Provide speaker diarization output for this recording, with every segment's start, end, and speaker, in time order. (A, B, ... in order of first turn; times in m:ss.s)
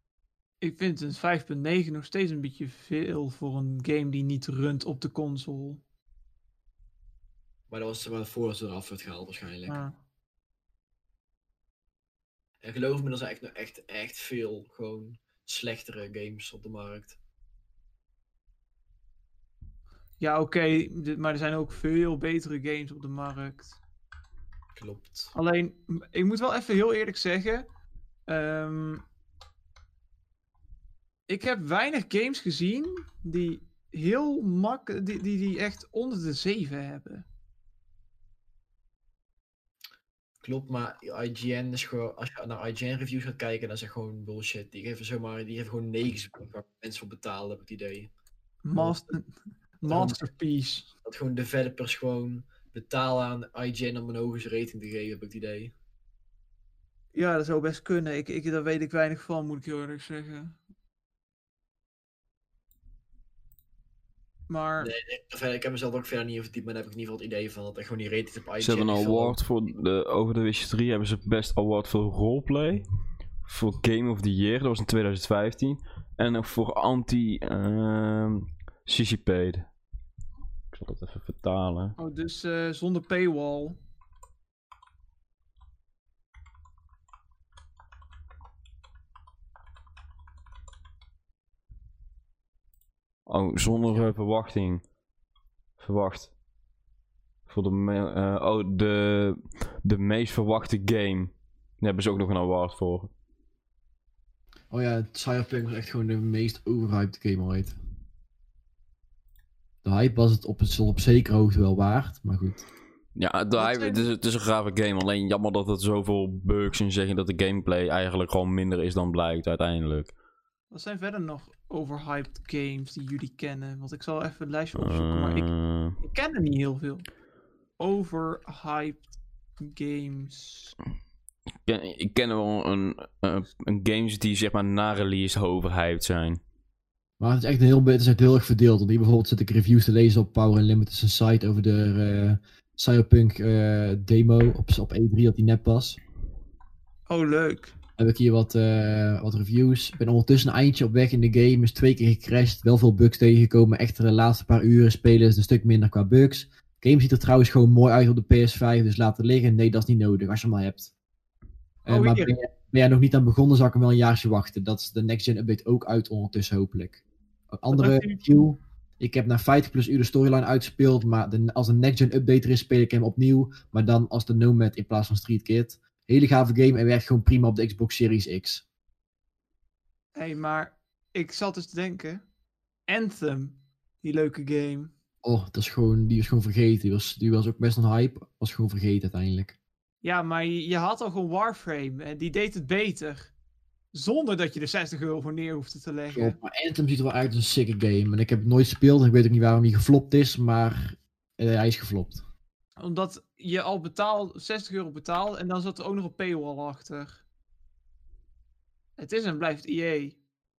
0:00.6-0:05.8 A
0:07.7-0:09.8 B
0:09.7-0:09.9 A
0:12.6-0:17.2 B
0:20.2-0:23.8 A
0:24.8-0:25.3 B
0:25.4-0:27.7 A
0:28.3-0:29.0 A
0:31.3-0:37.2 A
0:40.4-0:48.1 B
0:48.6-0:49.3 A
0:49.8-0:50.9 A
0:49.9-0:50.2 B
0:51.0-0:55.7 B
0:57.1-1:00.6 A
1:04.5-1:04.9 A
1:04.8-1:09.4 B
1:08.6-1:12.8 C
1:13.4-1:19.7 C
1:20.7-1:22.0 C
1:22.0-1:23.8 A
1:33.3-1:34.8 C
1:35.8-1:36.3 C
1:37.5-1:43.1 C
1:44.7-1:47.8 B
1:49.8-1:52.7 B
1:53.2-2:00.1 C
1:53.6-1:54.1 A
2:00.7-2:05.5 A
2:04.8-2:06.0 C
2:06.0-2:07.1 A
2:07.8-2:10.8 A
2:11.6-2:16.4 C
2:17.2-2:26.0 B
2:27.1-2:27.7 A
2:28.0-2:40.9 B
2:41.8-2:58.6 B
2:41.9-2:42.3 A
2:47.7-2:48.3 A
3:00.2-3:02.2 A
3:02.9-3:04.9 A
3:05.2-3:09.6 B
3:10.0-3:13.3 A
3:13.9-3:16.4 A
3:16.1-3:22.2 B
3:22.8-3:27.2 A
3:29.0-3:30.2 A